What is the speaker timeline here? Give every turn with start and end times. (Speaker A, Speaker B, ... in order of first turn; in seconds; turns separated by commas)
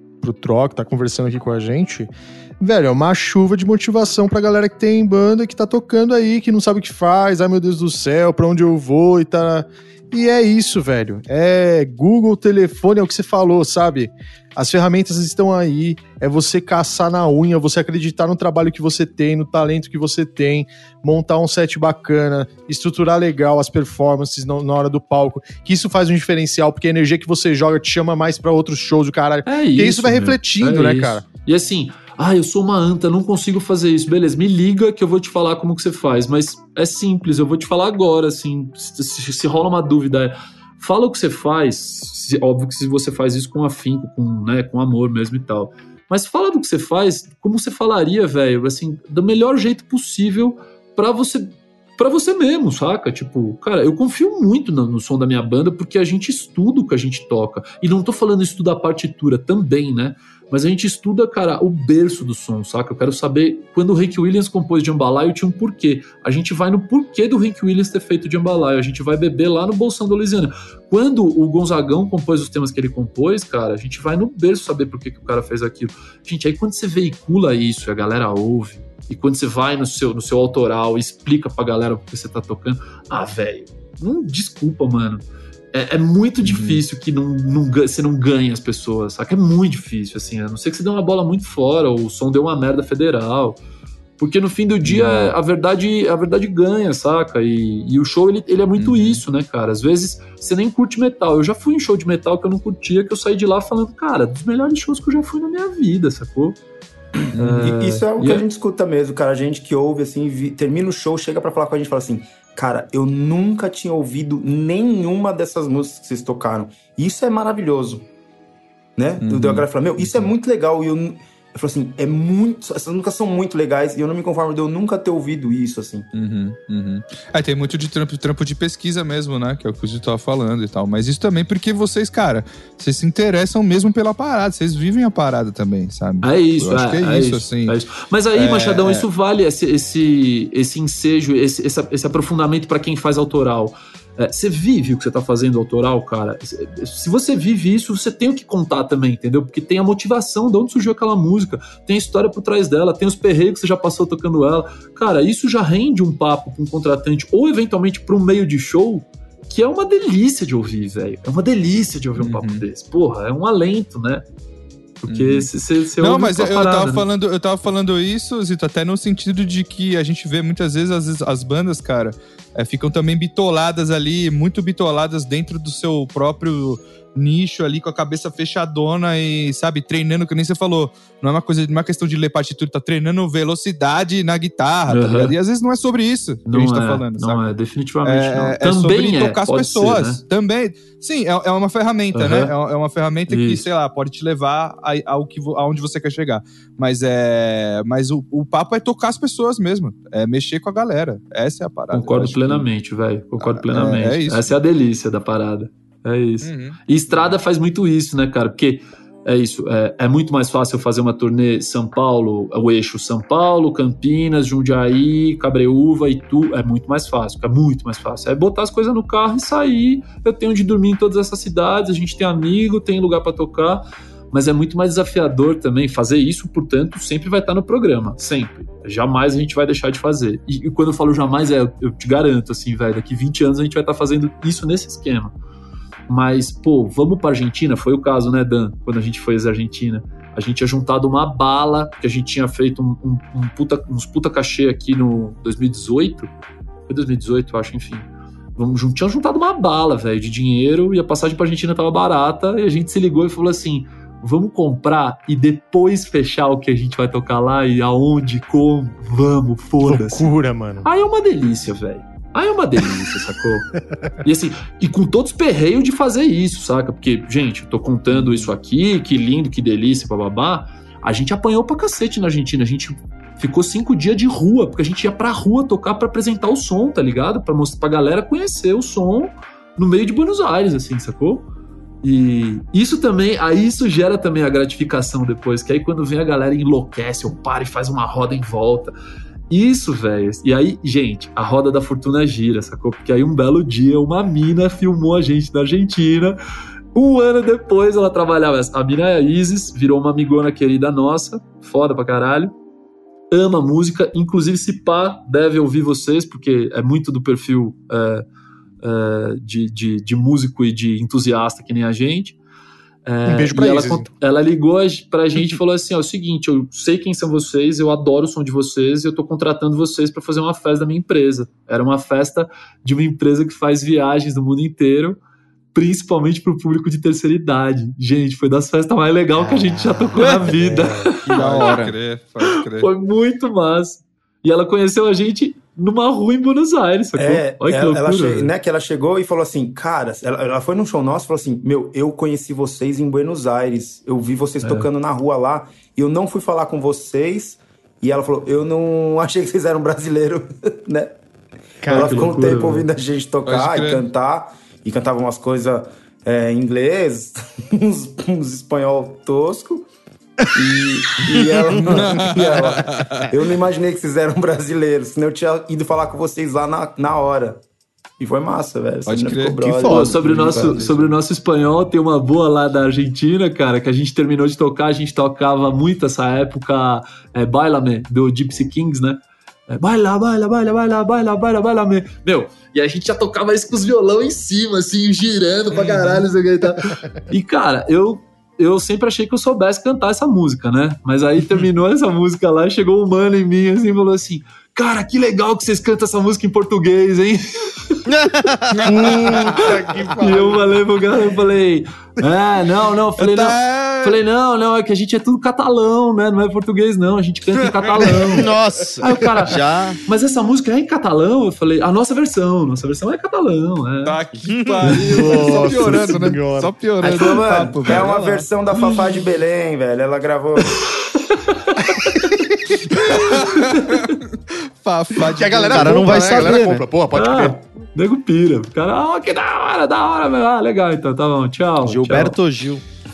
Speaker A: 0.2-31.3, Speaker B: 29.4-93.6, Speaker C: 86.4-86.8, Speaker B: 94.2-106.6, Speaker C: 94.8-95.3, Speaker C: 98.8-99.2, Speaker C: 107.3-107.7, Speaker B: 107.3-108.4, Speaker D: 107.6-118.0, Speaker D: 119.0-126.1, Speaker C: 119.2-120.3, Speaker C: 126.1-137.8, Speaker B: 136.2-164.2, Speaker C: 138.3-139.1, Speaker C: 162.2-162.7, Speaker B: 165.0-167.0, Speaker C: 165.1-187.5, Speaker B: 184.9-185.3, Speaker B: 186.5-190.2, Speaker C: 188.0-202.7, Speaker B: 192.1-192.5, Speaker B: 193.3-193.7, Speaker B: 201.9-235.3, Speaker C: 203.4-204.6, Speaker C: 206.4-207.3, Speaker B: 236.1-246.3, Speaker B: 246.9-248.1, Speaker B: 248.6-260.3, Speaker A: 259.8-260.9, Speaker B: 260.8-263.7, Speaker B: 264.2-281.5, Speaker B: 282.0-288.9, Speaker B: 289.5-296.4, Speaker B: 296.9-302.5, Speaker B: 303.3-308.2, Speaker B: 308.8-312.4, Speaker B: 313.1-325.2, Speaker A: 313.2-314.1, Speaker B: 325.7-331.9, Speaker A: 330.6-331.1, Speaker C: 331.2-332.9, Speaker B: 332.4-338.5, Speaker D: 337.2-351.1, Speaker B: 344.6-344.9, Speaker D: 351.8-359.9, Speaker A: 351.8-352.4, Speaker B: 351.9-352.9, Speaker C: 353.4-354.0, Speaker D: 360.5-367.6, Speaker C: 361.9-363.3, Speaker D: 368.2-371.1, Speaker C: 369.1-369.9, Speaker E: 369.6-370.8, Speaker B: 369.8-398.0, Speaker C: 385.7-386.3, Speaker E: 398.1-399.3, Speaker C: 398.7-399.6, Speaker A: 398.8-400.8, Speaker B: 399.6-414.1, Speaker C: 403.2-404.2, Speaker C: 407.6-408.3, Speaker E: 408.3-410.0, Speaker C: 414.0-418.5, Speaker E: 414.4-414.9, Speaker B: 414.9-415.2, Speaker A: 415.0-416.7, Speaker D: 417.0-420.9, Speaker B: 421.1-422.4, Speaker B: 422.9-424.1, Speaker C: 423.1-426.6, Speaker A: 425.3-427.6, Speaker E: 425.7-426.8, Speaker B: 427.1-432.4, Speaker E: 431.8-432.8